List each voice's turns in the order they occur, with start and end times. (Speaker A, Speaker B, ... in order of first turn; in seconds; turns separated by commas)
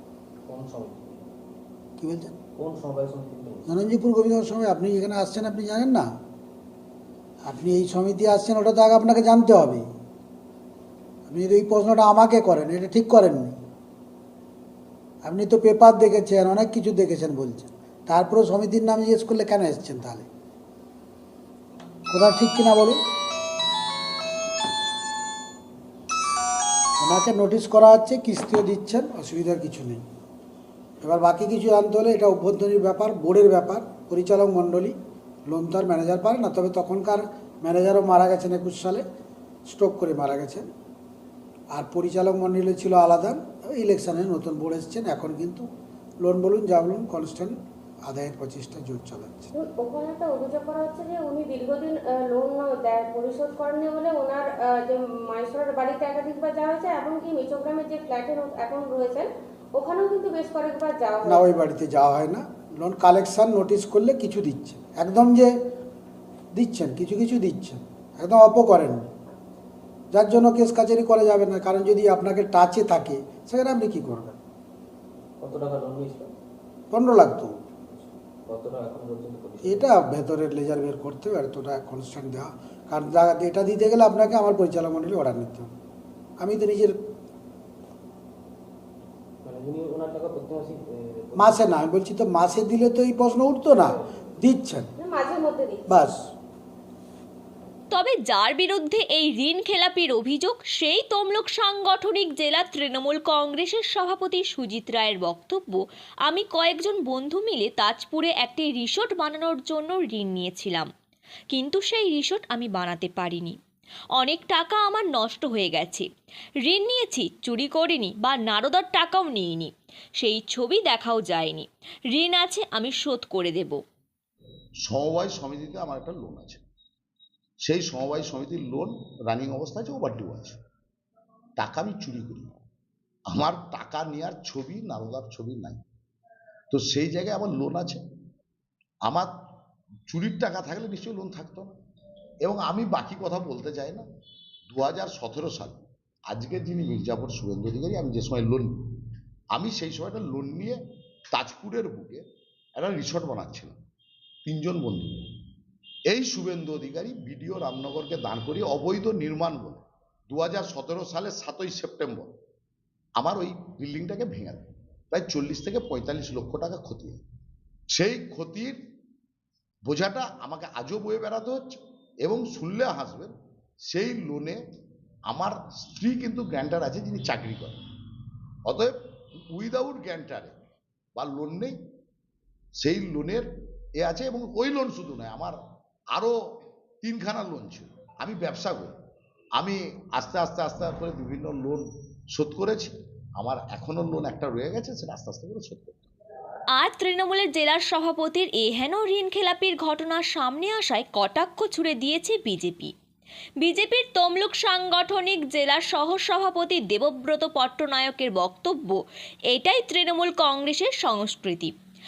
Speaker A: 0.5-1.3, Speaker B: 2.0-2.4, Speaker A: 2.6-3.7, Speaker B: 3.7-6.1, Speaker B: 7.4-9.8, Speaker B: 11.3-13.6, Speaker B: 15.2-20.3, Speaker B: 22.1-23.0, Speaker B: 27.0-30.0, Speaker B: 31.0-35.0, Speaker B: 35.5-39.0, Speaker B: 39.7-40.7, Speaker B: 41.7-45.7, Speaker B: 46.2-49.5, Speaker C: 49.5-61.6, Speaker B: 61.3-65.5, Speaker B: 66.5-69.1, Speaker B: 70.1-74.3, Speaker A: 75.4-76.3, Speaker B: 76.9-77.5, Speaker A: 77.9-80.0, Speaker B: 79.6-85.7, Speaker B: 86.4-87.0, Speaker A: 89.4-91.8, Speaker B: 91.4-94.9, Speaker A: 93.7-94.0, Speaker C: 95.0-96.0, Speaker B: 95.9-96.2, Speaker D: 97.9-110.9, Speaker D: 111.5-113.6, Speaker D: 114.2-116.1, Speaker D: 116.7-123.8, Speaker E: 124.8-126.6, Speaker E: 127.6-130.6, Speaker E: 131.6-132.5, Speaker E: 133.3-135.8, Speaker E: 136.7-138.0, Speaker E: 140.1-141.8, Speaker E: 142.4-144.1, Speaker E: 144.7-148.9, Speaker E: 149.5-150.8, Speaker E: 151.3-152.2, Speaker E: 152.8-153.8, Speaker E: 154.5-155.3, Speaker E: 156.1-162.3, Speaker E: 163.2-167.2, Speaker E: 167.9-168.8, Speaker E: 169.9-173.3, Speaker E: 173.9-174.6, Speaker E: 175.3-177.8, Speaker E: 178.7-178.9, Speaker E: 179.5-180.6, Speaker E: 181.2-181.8, Speaker E: 182.8-185.6, Speaker E: 187.0-188.9, Speaker E: 189.6-196.1, Speaker D: 196.8-202.9, Speaker D: 203.6-211.7